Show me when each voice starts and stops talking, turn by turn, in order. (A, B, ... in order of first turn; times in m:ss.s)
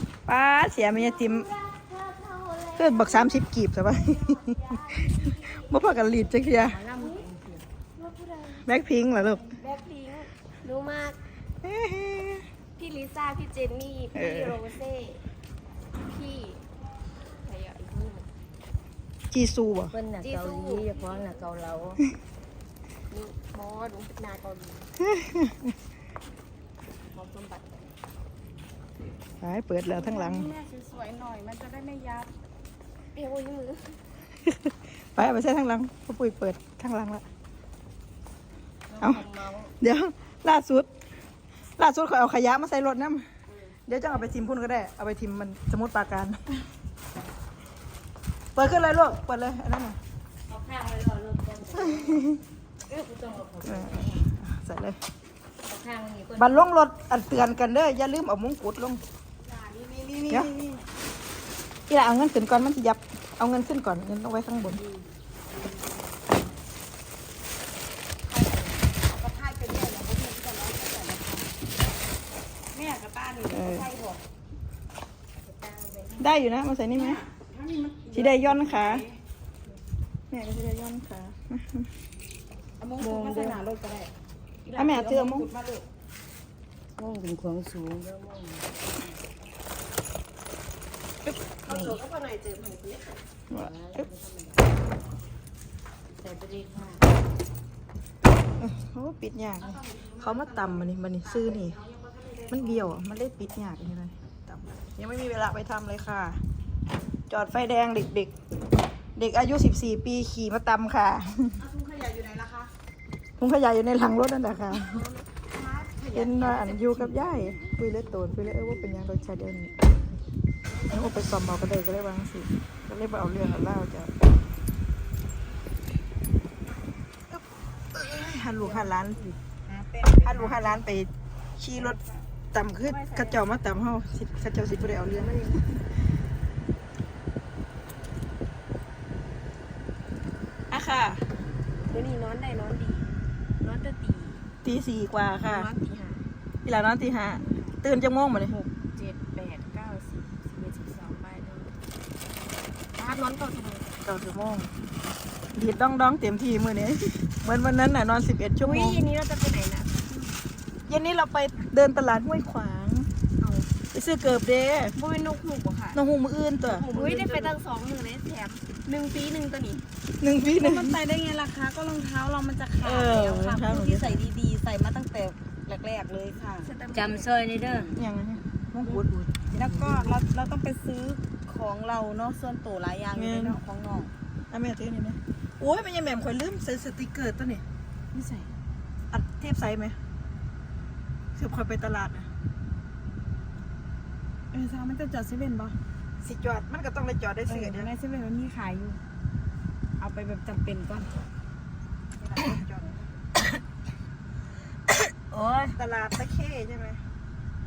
0:00.3-0:01.5 A
0:00.9-0:03.3 B
0:02.8-0:06.8 A
0:06.5-0:07.6 B
0:07.0-0:07.2 C
0:08.0-0:08.7 C
0:08.7-0:09.5 A
0:09.5-0:11.2 C
0:11.6-0:12.4 A
0:12.8-0:15.2 C
0:14.1-0:14.6 A
0:16.0-0:16.6 C
0:17.4-0:18.3 C
0:19.3-0:20.0 A
0:19.9-0:22.0 B
0:20.2-0:21.4 C
0:23.1-0:24.9 C
0:25.0-0:25.6 A
0:27.1-0:27.8 C
0:29.4-0:30.5 A
0:29.9-0:32.3 D
0:33.1-0:34.0 C
0:34.4-0:37.2 A
0:38.9-0:39.7 D
0:39.0-0:39.3 A
0:39.8-0:40.9 A
0:41.8-0:43.2 A
0:43.9-0:46.4 A
0:48.6-0:50.0 A
0:50.5-0:52.4 B
0:51.8-0:52.4 A
0:52.9-0:54.3 B
0:53.6-0:55.0 A
0:55.6-0:56.7 B
0:56.4-0:59.0 A
0:59.4-1:00.8 D
1:00.3-1:00.5 A
1:01.9-1:04.8 A
1:08.3-1:11.5 D
1:12.7-1:14.2 D
1:13.5-1:13.9 A
1:16.2-1:17.2 A
1:16.9-1:19.2 D
1:18.1-1:19.1 A
1:20.3-1:21.9 A
1:22.8-1:24.1 D
1:23.0-1:23.6 B
1:24.6-1:25.8 D
1:24.7-1:25.5 A
1:27.0-1:28.7 B
1:31.3-1:31.9 A
1:31.7-1:33.2 C
1:33.5-1:34.1 A
1:33.5-1:34.6 B
1:36.2-1:37.0 B
1:38.6-1:41.8 A
1:39.6-1:42.9 D
1:42.5-1:46.4 A
1:47.3-1:48.3 A
1:49.2-1:51.6 A
1:51.6-1:52.7 D
1:53.4-1:55.0 A
1:55.0-1:55.2 C
1:55.5-1:57.3 D
1:56.1-1:59.8 A
2:00.9-2:04.1 A
2:07.9-2:09.3 A
2:08.6-2:08.9 D
2:09.7-2:10.8 D
2:10.2-2:12.0 A
2:11.8-2:12.2 D
2:12.5-2:15.6 A
2:15.1-2:15.6 C
2:20.7-2:21.2 A
2:21.9-2:24.5 C
2:24.6-2:25.7 A
2:25.5-2:26.2 C
2:26.6-2:28.6 A
2:27.5-2:27.7 C
2:28.5-2:31.8 C
2:33.0-2:33.9 C
2:34.0-2:34.7 A
2:35.5-2:39.0 A
2:38.6-2:40.4 C
2:40.9-2:43.1 A
2:43.4-2:43.7 C
2:43.9-2:45.0 A
2:45.0-2:46.0 C
2:45.9-2:46.9 A
2:46.7-2:49.8 C
2:46.9-2:47.6 D
2:50.2-2:51.0 A
2:50.5-2:56.7 D
2:52.8-2:54.3 A
2:56.6-2:57.3 C
2:56.9-2:58.0 B
2:57.9-2:59.2 A
2:58.8-3:04.1 D
2:59.6-3:00.0 B
3:03.1-3:03.6 A
3:04.5-3:07.6 A
3:08.1-3:08.5 D
3:09.1-3:10.0 A
3:11.4-3:12.3 A
3:14.5-3:15.8 D
3:16.2-3:17.9 A
3:17.5-3:19.0 D
3:20.0-3:21.1 D
3:22.2-3:23.0 A
3:24.9-3:25.8 B
3:25.8-3:27.0 A